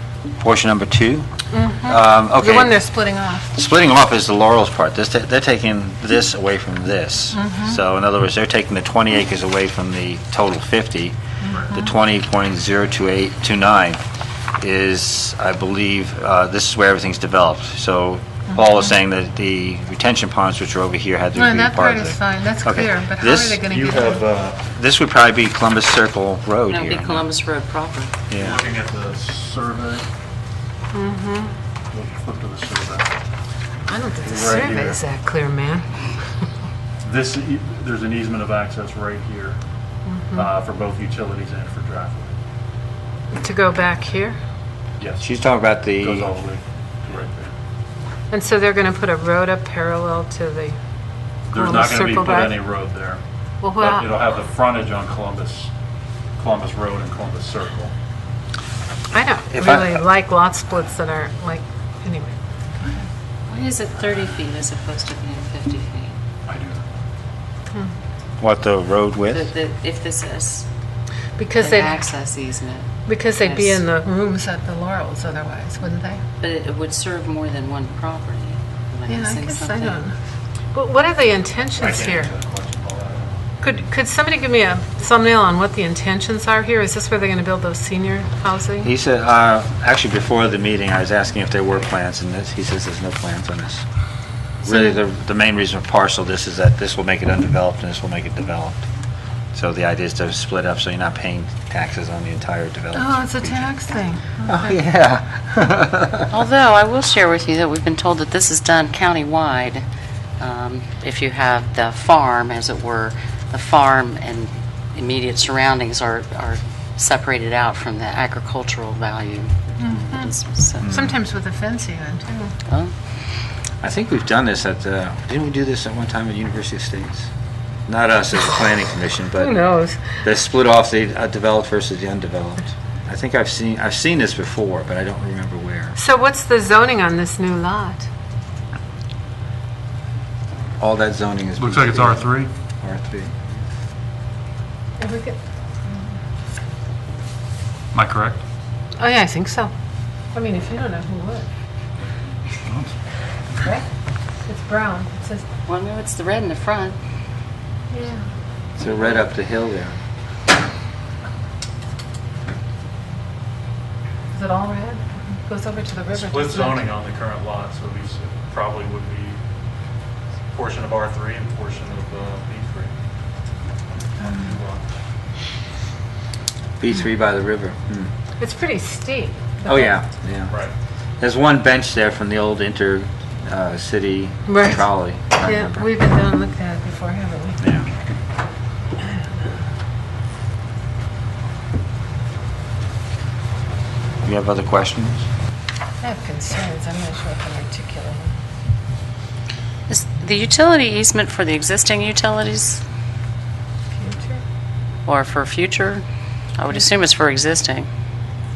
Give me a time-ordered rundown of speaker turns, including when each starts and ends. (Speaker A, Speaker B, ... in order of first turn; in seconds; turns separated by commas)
Speaker A: 0.4-2.8, Speaker B: 1.5-3.5, Speaker A: 3.5-14.0, Speaker B: 7.3-7.8, Speaker B: 11.5-11.8, Speaker A: 14.6-23.6, Speaker B: 21.4-24.2, Speaker C: 23.7-24.7, Speaker A: 24.6-27.3, Speaker D: 26.7-28.1, Speaker A: 28.3-28.6, Speaker C: 28.4-30.1, Speaker B: 30.9-31.5, Speaker C: 31.9-33.1, Speaker B: 33.9-35.9, Speaker C: 34.2-35.0, Speaker C: 37.0-39.6, Speaker B: 40.1-40.4, Speaker C: 40.4-42.3, Speaker B: 43.3-44.4, Speaker A: 45.2-46.3, Speaker C: 46.0-47.5, Speaker B: 48.3-50.8, Speaker C: 51.5-53.2, Speaker B: 51.5-52.6, Speaker B: 53.6-54.1, Speaker C: 53.8-55.7, Speaker C: 56.4-57.9, Speaker B: 59.1-62.4, Speaker A: 59.5-60.0, Speaker D: 63.5-66.2, Speaker C: 66.5-66.8, Speaker A: 68.4-69.5, Speaker D: 69.3-70.7, Speaker B: 71.4-72.0, Speaker D: 71.6-73.8, Speaker B: 73.1-76.2, Speaker D: 76.4-80.0, Speaker B: 79.1-80.2, Speaker B: 80.7-82.3, Speaker C: 81.8-83.3, Speaker B: 83.6-88.9, Speaker A: 88.8-93.8, Speaker A: 94.6-98.9, Speaker B: 94.7-94.9, Speaker A: 99.5-103.7, Speaker B: 102.9-104.8, Speaker A: 104.5-106.3, Speaker D: 106.3-109.8, Speaker D: 110.4-120.9, Speaker B: 119.8-120.3, Speaker A: 120.8-121.2, Speaker B: 120.8-122.5, Speaker A: 123.8-127.3, Speaker A: 127.9-136.0, Speaker B: 129.4-130.2, Speaker B: 136.0-138.1, Speaker A: 140.8-142.2, Speaker C: 141.6-142.5, Speaker A: 142.8-143.6, Speaker B: 145.0-145.4, Speaker C: 147.9-148.4, Speaker B: 149.0-149.7, Speaker B: 150.3-151.5, Speaker C: 152.7-152.9, Speaker B: 154.5-155.5, Speaker D: 155.7-157.0, Speaker B: 157.9-158.2, Speaker A: 158.8-159.9, Speaker B: 164.3-166.9, Speaker C: 166.1-169.4, Speaker C: 170.5-172.9, Speaker C: 174.2-174.8, Speaker A: 176.8-178.1, Speaker B: 178.4-179.9, Speaker A: 179.7-180.5, Speaker A: 181.2-185.9, Speaker B: 184.5-184.8, Speaker B: 185.4-187.6, Speaker A: 187.6-187.9, Speaker A: 194.2-195.3, Speaker B: 196.0-198.3, Speaker D: 199.9-202.8, Speaker B: 203.9-204.4, Speaker D: 205.1-206.0, Speaker D: 206.6-207.9